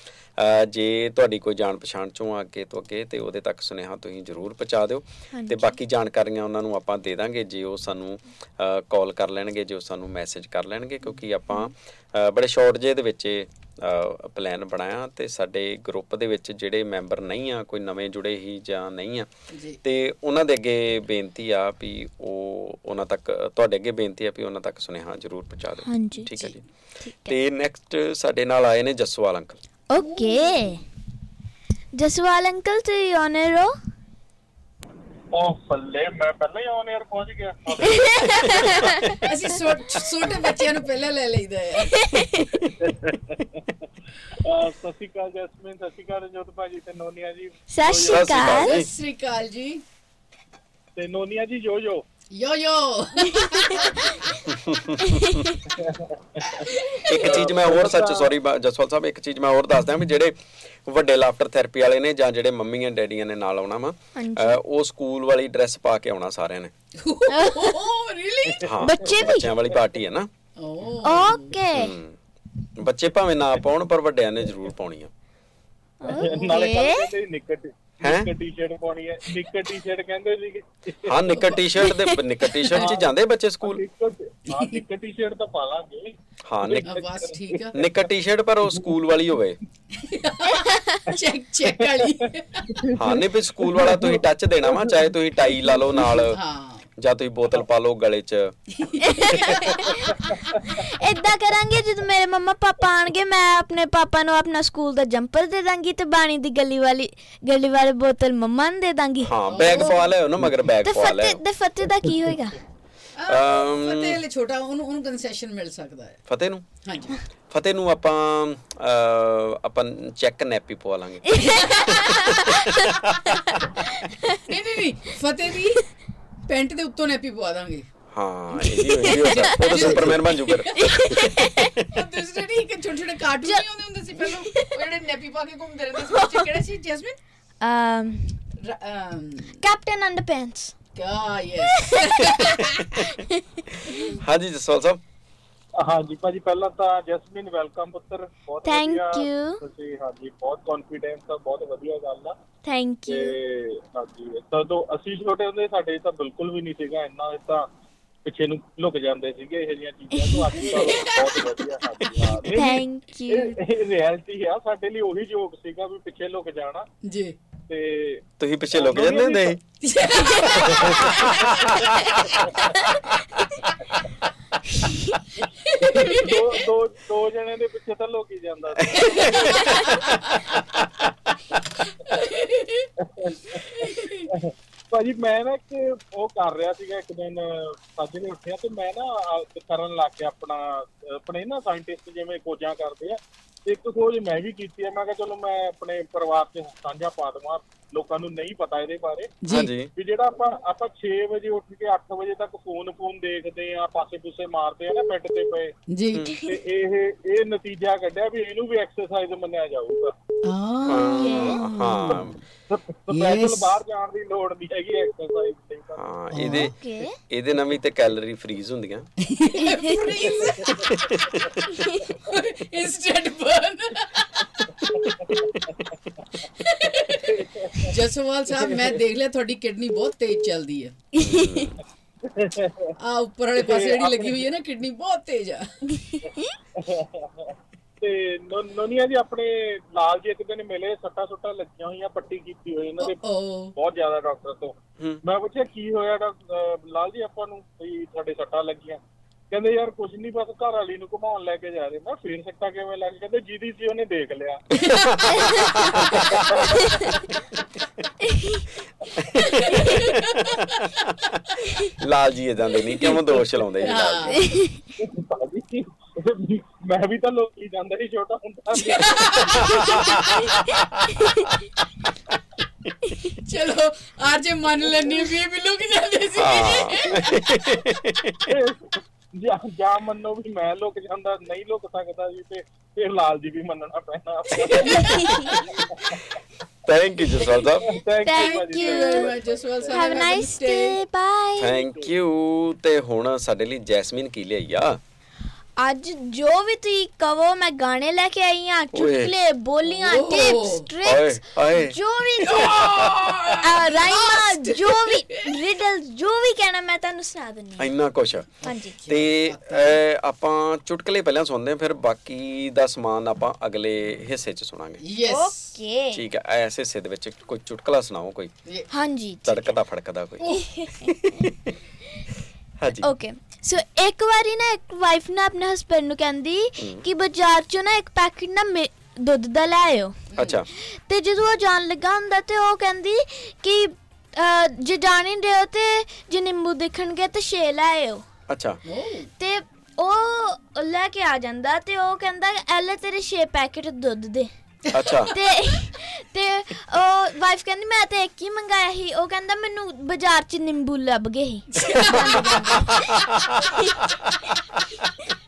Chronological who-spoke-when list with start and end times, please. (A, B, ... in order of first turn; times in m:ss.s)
0:00.4-0:19.3 A
0:05.3-0:05.8 B
0:19.5-0:19.8 C
0:19.8-0:26.6 A
0:25.8-0:27.4 B
0:27.3-0:29.6 A
0:29.9-0:30.8 B
0:30.0-0:30.8 C
0:32.0-0:33.7 B
0:35.3-0:38.2 D
0:37.8-0:39.2 B
0:38.5-0:38.7 A
0:39.2-0:42.2 C
0:41.9-0:42.7 B
0:42.8-0:43.6 D
0:44.3-0:48.3 D
0:47.7-0:48.8 B
0:48.0-0:48.9 A
0:48.5-0:49.8 C
0:51.0-0:52.0 D
0:52.3-0:54.4 C
0:53.3-0:53.8 B
0:54.5-0:55.4 A
0:55.0-0:55.6 B
0:55.7-0:58.4 D
0:56.5-0:57.1 C
0:57.1-1:06.7 A
1:04.2-1:04.6 B
1:07.0-1:08.7 C
1:07.3-1:07.9 B
1:08.6-1:10.3 A
1:08.8-1:09.5 B
1:10.6-1:11.5 C
1:11.0-1:12.0 B
1:11.7-1:12.2 A
1:12.8-1:15.1 A
1:16.0-1:17.1 B
1:16.1-1:21.5 D
1:18.0-1:18.3 A
1:21.0-1:23.8 A
1:21.4-1:21.7 C
1:22.7-1:23.1 D
1:23.6-1:27.7 D
1:24.5-1:24.8 C
1:26.4-1:26.9 A
1:26.8-1:27.8 C
1:27.7-1:29.6 A
1:29.9-1:32.8 C
1:30.5-1:31.1 B
1:32.7-1:33.2 D
1:33.0-1:36.4 A
1:33.7-1:34.2 D
1:36.2-1:36.9 C
1:37.0-1:38.6 A
1:38.8-1:40.5 C
1:39.0-1:49.9 B
1:49.2-1:51.4 A
1:49.5-1:50.1 C
1:50.8-1:52.6 B
1:53.2-1:56.2 C
1:53.3-1:54.2 A
1:56.3-1:56.6 A
1:56.8-1:57.2 C
1:57.5-2:02.2 A
2:01.3-2:04.4 B
2:01.4-2:02.4 C
2:04.4-2:05.9 C
2:06.5-2:07.9 C
2:08.1-2:12.0 A
2:08.7-2:10.0 B
2:09.0-2:17.2 C
2:10.7-2:11.8 B
2:14.2-2:14.7 B
2:16.1-2:16.5 B
2:17.6-2:18.4 B
2:18.6-2:19.6 C
2:19.6-2:20.7 B
2:21.0-2:23.0 C
2:21.7-2:24.2 B
2:24.2-2:25.0 A
2:25.8-2:32.4 D
2:28.6-2:29.6 B
2:32.6-2:33.4 B
2:33.1-2:37.7 D
2:38.3-2:46.9 D
2:40.3-2:40.8 B
2:40.6-2:41.7 C
2:42.5-2:43.6 B
2:47.0-2:47.4 C
2:47.7-2:49.6 D
2:48.4-2:49.6 A
2:49.8-2:51.8 C
2:50.4-2:52.5 A
2:54.8-2:55.2 B
2:55.4-2:59.5 D
2:55.6-2:56.5 C
2:58.9-3:00.0 A
2:58.9-3:00.5 C
3:01.8-3:02.9 C
3:03.0-3:19.3 D
3:03.6-3:04.3 C
3:19.4-3:19.7 C
3:19.5-3:19.9 A
3:20.0-3:25.7 D
3:25.9-3:26.3 C
3:26.3-3:26.6 B
3:26.4-3:30.1 D
3:30.4-3:32.4 C
3:30.9-3:32.4 A
3:31.2-3:31.7 B
3:32.7-3:36.0 D
3:33.1-3:33.7 C
3:36.0-3:36.7 A
3:36.3-3:36.7 C
3:36.5-3:37.2 B
3:37.3-3:39.1 A
3:39.3-3:40.9 C
3:40.7-3:41.6 A
3:41.7-3:42.2 B
3:42.2-3:44.7 C
3:44.9-3:45.5 D
3:46.6-3:51.0 C
3:47.3-3:47.9 D
3:51.2-3:51.7 B
3:51.2-3:51.8 A
3:52.3-3:52.9 D
3:53.0-3:55.8 C
3:53.6-3:54.4 D
3:56.0-3:56.6 B
3:56.8-4:03.2 D
4:03.0-4:03.7 C
4:03.8-4:09.0 D
4:09.5-4:14.7 D
4:14.8-4:16.4 C
4:14.9-4:16.5 A
4:15.4-4:15.7 B
4:16.3-4:16.7 D
4:16.7-4:17.2 B
4:18.2-4:18.7 B
4:19.2-4:20.8 A
4:19.6-4:20.9 C
4:22.0-4:24.5 A
4:23.0-4:24.6 C
4:24.4-4:24.8 B
4:25.0-4:29.7 D
4:28.7-4:30.5 C
4:29.6-4:31.2 A
4:30.7-4:31.4 B
4:33.4-4:37.4 C
4:36.4-4:38.5 A
4:38.5-4:46.2 D
4:44.5-4:45.7 C
4:44.9-4:45.6 B
4:46.9-4:47.9 A
4:47.8-4:50.2 D
4:48.2-4:49.3 B
4:48.3-4:51.0 C
4:49.9-4:51.8 B
4:51.6-4:55.0 A
4:55.8-5:03.0 B
4:58.9-4:59.3 A
4:59.8-5:00.9 C
5:01.0-5:02.0 A
5:02.4-5:05.5 C
5:02.7-5:03.4 A
5:03.6-5:07.9 B
5:07.8-5:15.0 A
5:08.6-5:09.0 B
5:08.6-5:10.0 C
5:15.0-5:15.7 C
5:15.2-5:16.2 B
5:16.1-5:18.5 A
5:18.9-5:19.7 B
5:19.4-5:20.5 A
5:20.4-5:21.5 B
5:21.2-5:21.8 A
5:22.8-5:23.1 A
5:23.0-5:30.2 B
5:26.8-5:27.1 A
5:30.3-5:30.6 C
5:30.4-5:30.7 A
5:30.7-5:38.2 B
5:38.5-5:38.8 A
5:38.8-5:39.3 C
5:39.4-5:44.5 B
5:44.9-5:45.3 C
5:44.9-5:45.4 A
5:45.3-5:54.0 B
5:51.7-5:53.3 C
5:53.1-5:53.6 A